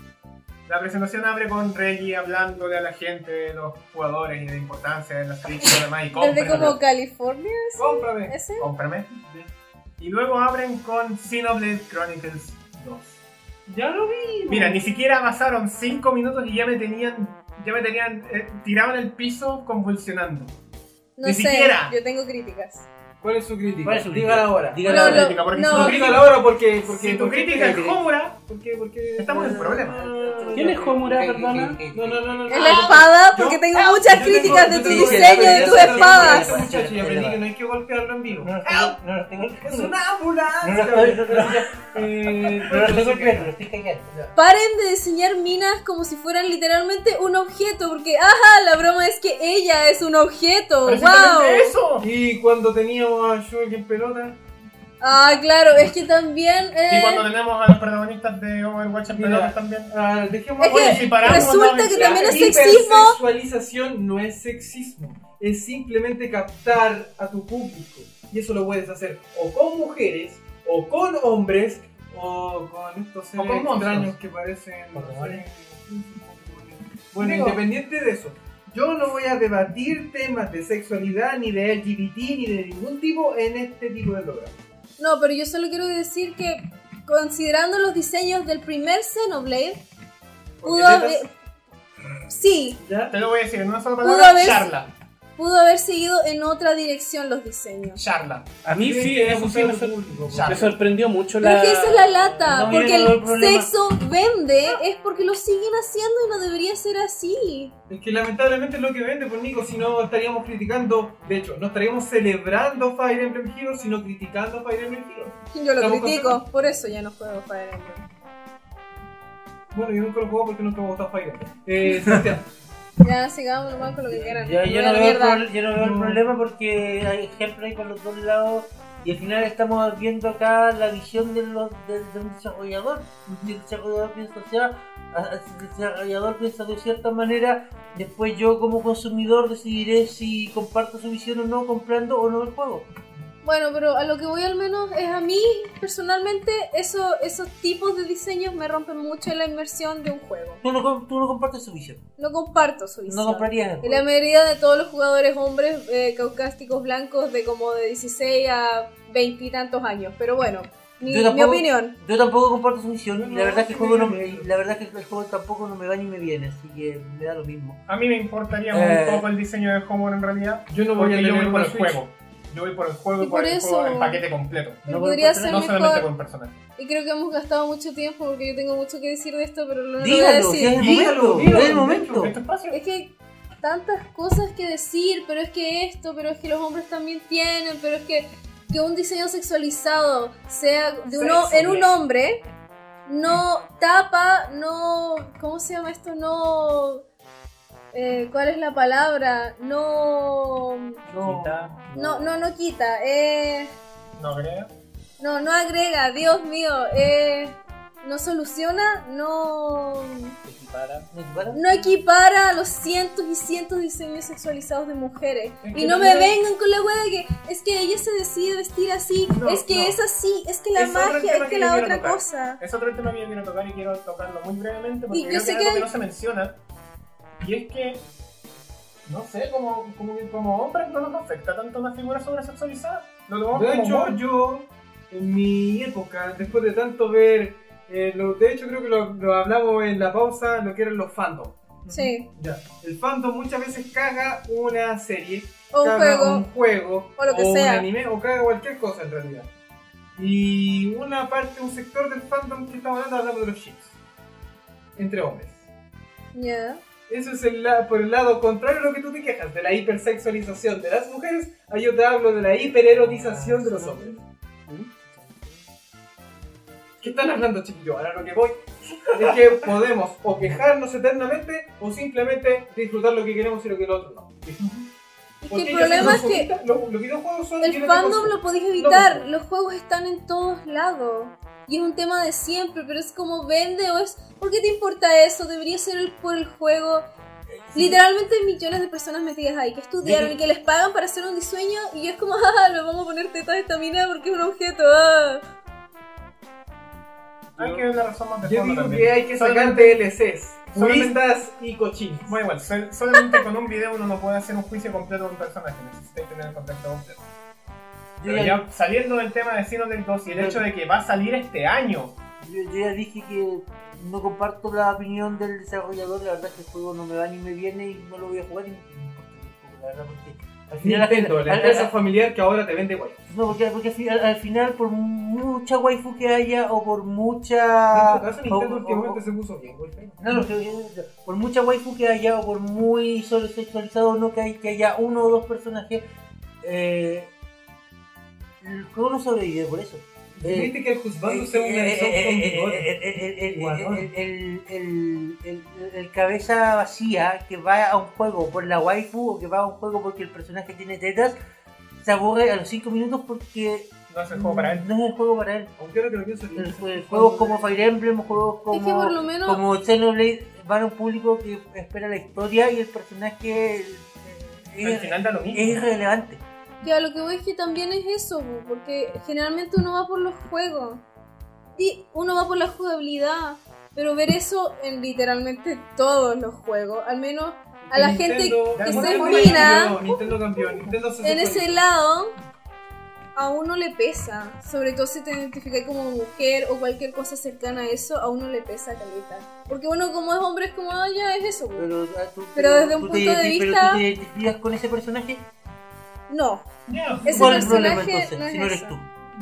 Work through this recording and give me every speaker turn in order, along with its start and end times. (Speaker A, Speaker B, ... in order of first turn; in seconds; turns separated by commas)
Speaker A: 0.7-6.8, Speaker B: 6.1-8.7, Speaker C: 7.8-8.4, Speaker A: 8.6-9.1, Speaker C: 9.1-9.5, Speaker A: 10.0-13.2, Speaker C: 13.7-14.8, Speaker A: 14.5-20.5, Speaker B: 21.2-22.9, Speaker A: 21.2-21.9, Speaker C: 23.2-29.8, Speaker D: 23.8-25.5, Speaker B: 24.9-26.2, Speaker A: 24.9-28.4, Speaker A: 29.2-30.1, Speaker D: 29.3-32.8, Speaker C: 30.4-30.9, Speaker E: 30.5-31.8, Speaker C: 31.9-38.9, Speaker B: 32.5-36.6, Speaker D: 34.2-37.4, Speaker D: 38.4-40.0, Speaker C: 39.6-43.5, Speaker D: 40.6-44.1, Speaker B: 44.3-51.8, Speaker A: 50.8-52.1, Speaker C: 52.0-54.4, Speaker B: 55.0-57.3, Speaker A: 56.9-59.9, Speaker C: 59.1-84.5, Speaker B: 60.6-63.2, Speaker A: 60.6-62.6, Speaker A: 73.3-74.1, Speaker D: 74.9-75.5, Speaker A: 77.2-77.6, Speaker B: 85.0-89.8, Speaker C: 90.6-91.2, Speaker B: 90.6-91.3, Speaker B: 92.3-92.8, Speaker C: 92.8-93.2, Speaker A: 93.1-94.9, Speaker B: 94.0-94.7, Speaker B: 95.4-98.0, Speaker A: 98.0-98.5, Speaker E: 98.6-102.3, Speaker C: 98.7-100.7, Speaker A: 100.3-100.7, Speaker B: 101.4-107.7, Speaker D: 102.4-103.7, Speaker C: 107.9-116.4, Speaker B: 115.5-118.0, Speaker C: 119.7-122.5, Speaker B: 123.0-125.5, Speaker D: 124.0-142.9, Speaker C: 125.7-126.2, Speaker B: 143.4-150.6, Speaker D: 150.6-152.0, Speaker B: 152.2-161.9, Speaker D: 153.1-154.1, Speaker D: 161.1-167.8, Speaker C: 163.1-164.5, Speaker A: 167.9-174.8, Speaker D: 168.7-169.3, Speaker C: 170.7-172.0, Speaker B: 173.2-174.2, Speaker B: 174.8-176.1, Speaker D: 174.9-175.7, Speaker A: 175.4-176.6, Speaker B: 176.8-180.9, Speaker D: 180.0-182.3, Speaker C: 180.7-182.3, Speaker A: 181.4-182.8, Speaker B: 182.7-192.4, Speaker C: 191.1-191.9, Speaker B: 193.1-197.0, Speaker B: 197.9-201.0, Speaker E: 201.1-202.2, Speaker D: 201.2-201.5, Speaker B: 201.9-203.7, Speaker A: 204.2-204.7, Speaker B: 205.2-210.3, Speaker E: 210.4-211.1, Speaker D: 211.1-211.7, Speaker B: 211.5-222.6, Speaker A: 215.7-216.3, Speaker C: 215.7-216.0, Speaker A: 219.3-220.0, Speaker A: 220.7-226.6, Speaker B: 225.1-225.9, Speaker A: 227.4-228.0, Speaker A: 229.1-234.2, Speaker C: 233.5-249.5, Speaker B: 241.9-242.3, Speaker B: 245.7-246.5, Speaker B: 247.2-247.9, Speaker C: 250.2-253.9, Speaker C: 254.9-255.6, Speaker B: 256.3-256.8, Speaker C: 257.1-264.2, Speaker D: 262.8-264.2, Speaker C: 267.0-274.4, Speaker A: 274.5-274.8, Speaker B: 275.4-276.5, Speaker C: 275.5-279.3, Speaker B: 277.6-287.0, Speaker D: 287.5-288.0, Speaker B: 287.7-295.4, Speaker D: 290.0-290.3, Speaker A: 297.6-300.0, Speaker C: 298.4-302.4, Speaker A: 300.7-301.1, Speaker A: 302.2-307.2, Speaker D: 308.2-308.6, Speaker A: 308.2-312.1, Speaker D: 310.3-310.6, Speaker D: 312.4-321.9, Speaker C: 320.8-323.2, Speaker D: 323.3-329.2, Speaker C: 327.9-330.4, Speaker D: 330.2-336.0, Speaker D: 336.6-337.3, Speaker D: 338.6-340.7, Speaker C: 340.4-344.1, Speaker D: 341.2-351.4, Speaker D: 352.0-355.7, Speaker A: 354.1-354.9, Speaker C: 355.8-357.9, Speaker D: 356.5-366.4, Speaker B: 358.7-359.6, Speaker A: 364.8-365.8, Speaker B: 366.8-371.0, Speaker B: 371.8-380.3, Speaker C: 377.8-381.8, Speaker A: 378.7-379.9, Speaker B: 381.2-382.3, Speaker B: 383.3-391.9, Speaker D: 391.8-395.4, Speaker B: 392.6-394.0, Speaker B: 396.3-396.7, Speaker A: 396.9-398.1, Speaker B: 397.2-399.0, Speaker D: 397.2-399.1